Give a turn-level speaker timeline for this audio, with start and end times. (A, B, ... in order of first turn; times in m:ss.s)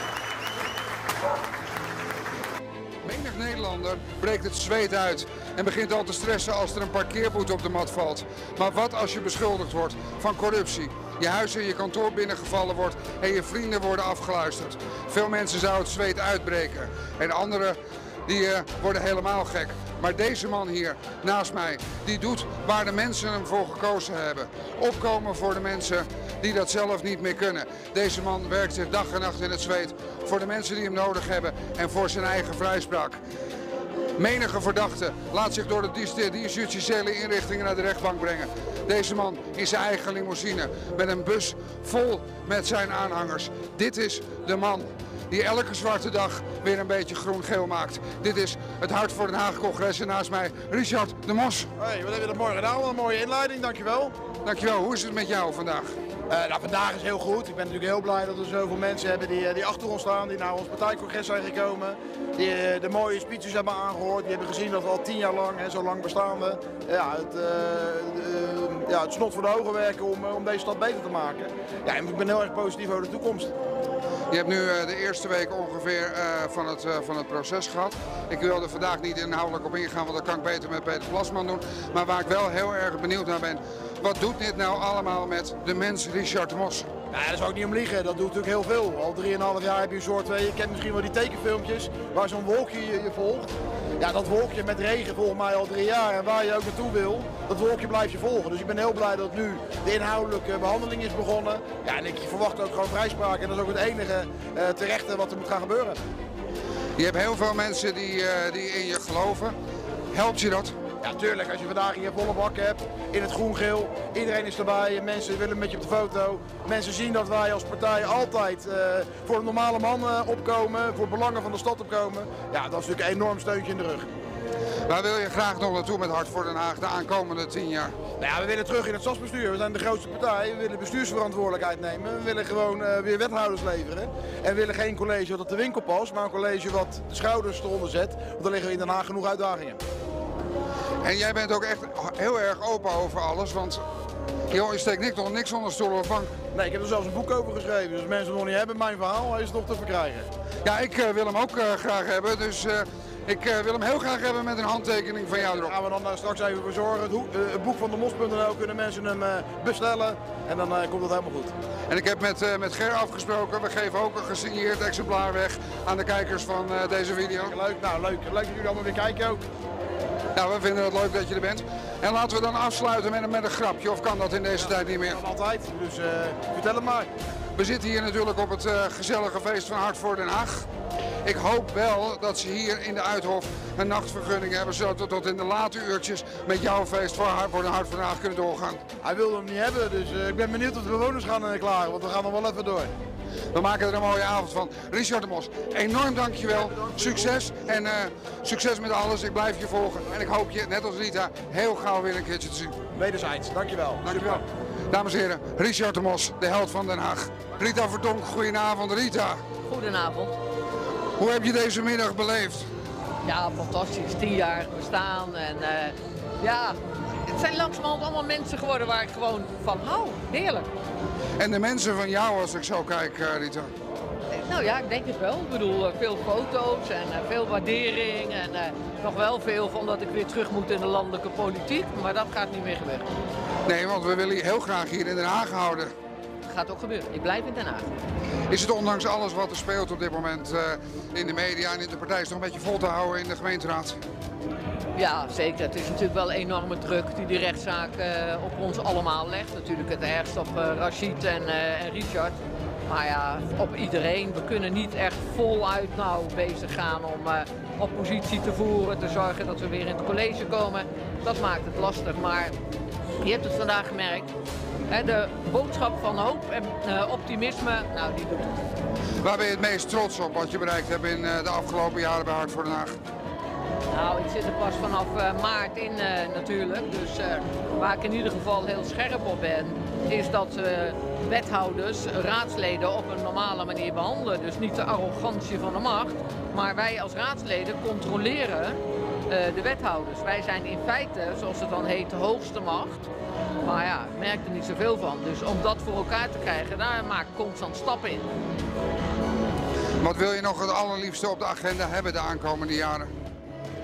0:03.0-0:33.2 A
0:34.2-0:51.7 A
0:51.8-0:54.1 B
0:54.4-0:55.9 A
0:56.3-1:13.5 B
1:14.3-1:26.9 A
1:27.1-1:33.5 B
1:34.0-1:46.0 B
1:47.0-1:49.6 A
1:50.1-1:50.8 A
1:51.0-2:04.1 B
2:04.9-2:07.9 A
2:08.2-2:19.8 B
2:21.0-2:23.8 A
2:24.5-2:26.3 A
2:26.5-2:30.3 B
2:30.6-2:35.8 A
2:35.4-2:41.5 B
2:41.9-2:47.6 A
2:47.5-2:49.4 B
2:50.4-2:55.2 A
2:54.6-2:57.1 B
2:57.6-3:00.7 A
3:01.2-3:08.8 A
3:09.0-3:12.9 B
3:13.5-3:22.8 A
3:16.7-3:17.3 B
3:23.0-3:24.3 B
3:24.0-3:29.4 A
3:29.7-3:30.4 C
3:31.2-3:32.7 A
3:33.3-3:36.8 C
3:37.3-3:40.7 C
3:41.4-3:43.7 A
3:44.3-3:53.1 C
3:53.7-3:55.9 A
3:56.5-3:57.9 C
3:58.5-4:04.0 A
4:05.0-4:22.5 C
4:23.2-4:24.3 C
4:24.9-4:28.6 C
4:29.2-4:33.0 A
4:33.9-4:53.1 C
4:53.6-4:58.3 C
5:00.0-5:03.1 A